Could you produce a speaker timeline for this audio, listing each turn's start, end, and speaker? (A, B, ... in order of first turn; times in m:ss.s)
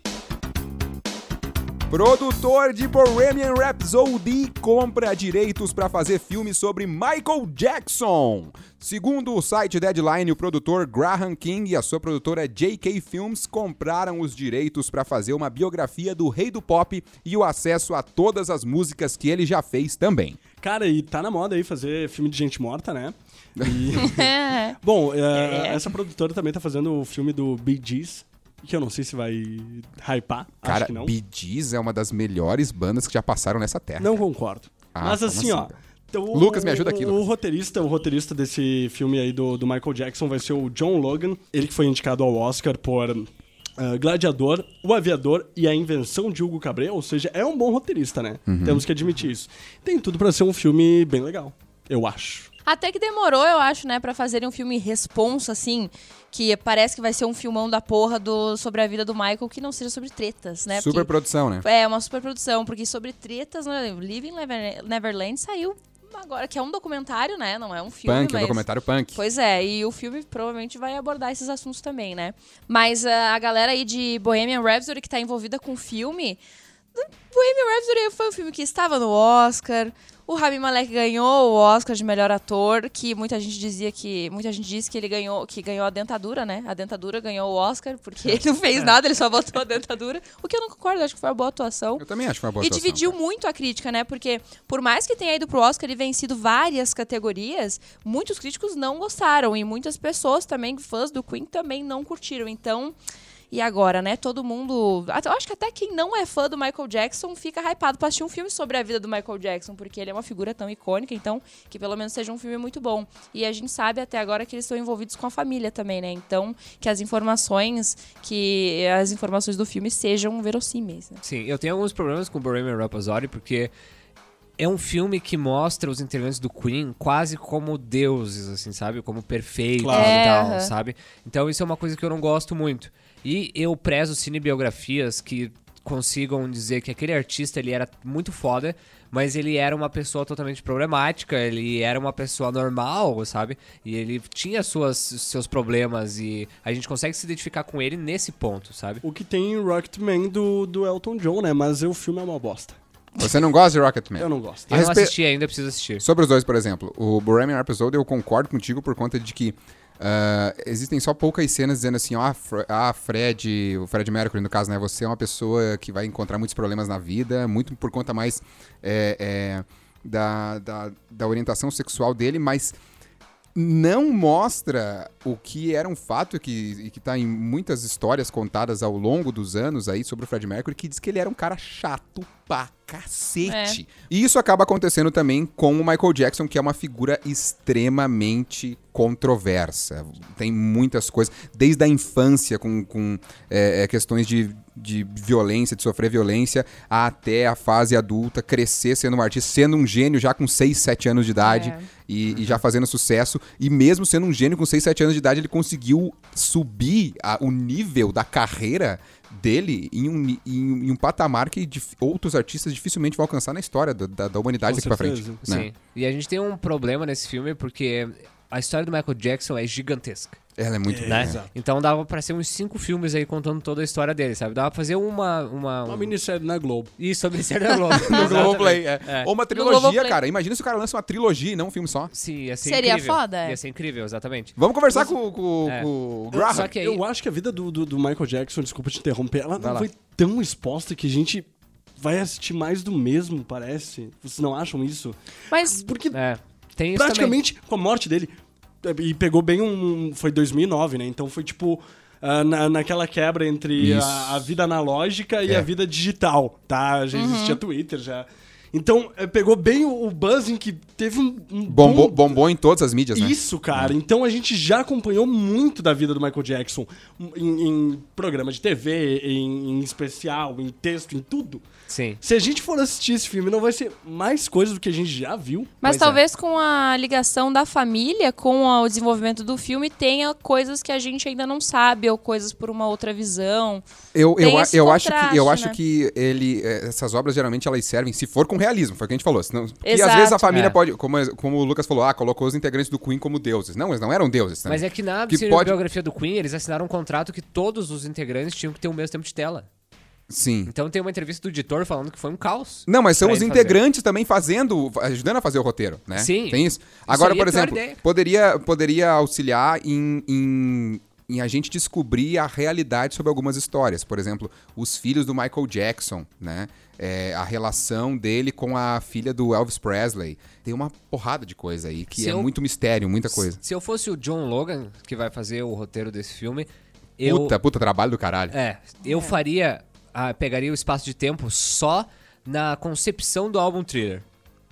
0:01.9-0:20.4 A
0:20.6-0:31.1 B
0:23.6-0:24.1 A
0:24.0-0:24.8 C
0:25.3-0:25.8 C
0:30.6-0:34.1 A
0:34.0-0:52.5 B
0:34.9-0:35.7 A
0:36.3-0:37.2 A
0:48.5-0:48.8 A
0:52.6-1:01.1 C
1:00.7-1:01.6 A
1:01.6-1:08.6 C
1:08.0-1:09.2 A
1:09.1-1:16.4 C
1:16.9-1:32.0 C
1:32.0-1:33.1 A
1:32.6-1:43.0 C
1:43.5-2:01.2 C
2:01.2-2:03.7 D
2:04.6-2:29.0 D
2:09.8-2:10.2 B
2:09.9-2:10.7 C
2:29.0-2:32.8 B
2:33.2-2:35.1 A
2:34.2-2:34.8 B
2:34.7-2:36.0 D
2:36.0-2:52.8 A
2:53.5-3:35.7 A
3:03.4-3:03.8 C
3:21.4-3:21.8 C
3:34.6-3:35.4 B
3:35.4-3:40.4 D
3:40.6-3:41.4 A
3:40.9-3:41.5 B
3:41.0-3:46.1 D
3:45.8-3:46.9 B
3:47.0-3:49.3 D
3:48.0-3:52.1 A
3:49.5-3:50.2 C
3:52.1-3:54.6 D
3:52.6-3:53.6 C
3:54.6-3:56.7 A
3:55.6-3:57.0 D
3:56.3-4:06.2 B
3:59.6-3:59.9 A
4:05.5-4:05.8 C
4:06.1-4:07.4 D
4:06.9-4:22.4 B
4:13.8-4:14.5 A
4:17.1-4:17.6 C
4:21.7-4:24.0 A
4:23.1-4:31.6 B
4:31.9-4:32.2 D
4:32.2-4:35.8 B
4:35.8-4:43.8 C
4:35.8-4:36.2 D
4:44.1-4:55.8 A
4:44.4-4:45.8 C
4:49.8-4:50.5 C
4:50.5-4:50.8 D
4:54.6-4:59.7 D
5:00.3-5:00.7 A
5:00.6-5:03.8 D
5:02.9-5:23.6 A
5:06.1-5:08.0 D
5:22.1-5:22.5 D
5:23.3-5:27.6 D
5:27.2-5:28.5 A
5:28.5-5:34.2 D
5:29.0-5:29.4 C